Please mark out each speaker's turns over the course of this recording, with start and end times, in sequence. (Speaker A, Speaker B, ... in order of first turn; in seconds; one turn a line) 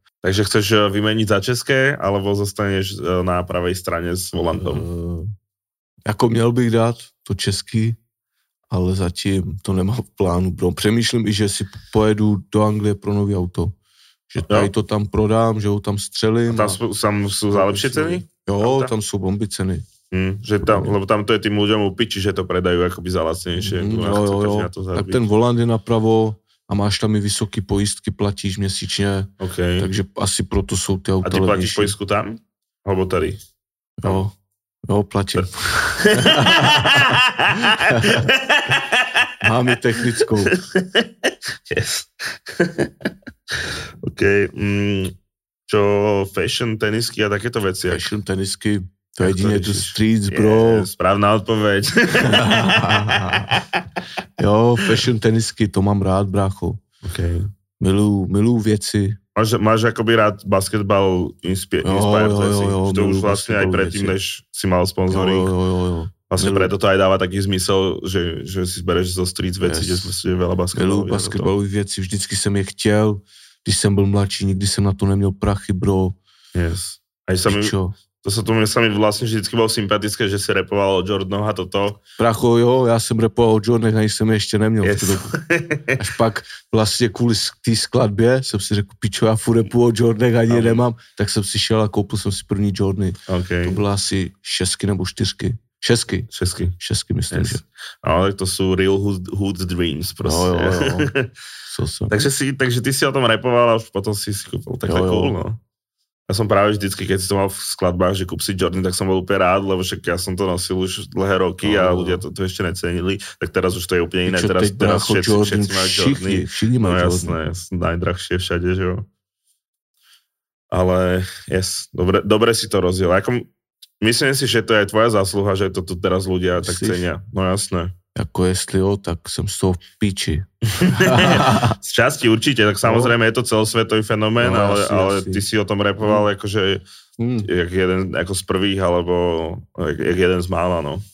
Speaker A: 0.2-4.8
Speaker B: 4.6-5.3
Speaker B: 6.0-8.0
Speaker B: 8.7-13.7
Speaker B: 14.3-16.8
Speaker A: 14.4-14.7
Speaker A: 16.5-18.9
Speaker B: 17.5-19.8
Speaker A: 20.1-25.2
Speaker B: 20.6-20.9
Speaker B: 23.6-31.9
Speaker A: 29.4-29.9
Speaker A: 31.2-33.4
Speaker B: 34.0-34.3
Speaker B: 34.8-38.3
Speaker A: 36.0-39.3
Speaker B: 39.4-40.5
Speaker A: 40.0-45.1
Speaker A: 45.7-48.1
Speaker B: 47.9-50.9
Speaker A: 49.2-53.8
Speaker B: 52.2-53.6
Speaker B: 54.4-56.8
Speaker A: 57.0-57.5
Speaker B: 57.8-59.2
Speaker A: 59.3-65.5
Speaker B: 61.8-64.2
Speaker B: 65.1-66.7
Speaker A: 66.3-71.5
Speaker B: 69.6-70.1
Speaker B: 70.7-76.2
Speaker A: 76.5-82.0
Speaker B: 77.5-77.9
Speaker B: 82.2-85.3
Speaker A: 84.8-86.0
Speaker B: 86.0-97.6
Speaker A: 90.5-90.8
Speaker A: 93.3-93.8
Speaker A: 96.3-96.7
Speaker A: 97.3-101.3
Speaker B: 100.2-101.1
Speaker B: 101.7-102.2
Speaker A: 102.1-105.6
Speaker B: 104.8-105.3
Speaker A: 106.3-119.1
Speaker B: 111.6-112.2
Speaker B: 114.2-117.4
Speaker A: 120.7-123.5
Speaker A: 124.0-127.9
Speaker B: 126.6-127.0
Speaker B: 128.1-131.8
Speaker A: 130.7-136.8
Speaker B: 132.8-133.2
Speaker B: 134.4-135.4
Speaker B: 136.0-136.3
Speaker B: 137.2-137.5
Speaker A: 137.4-141.0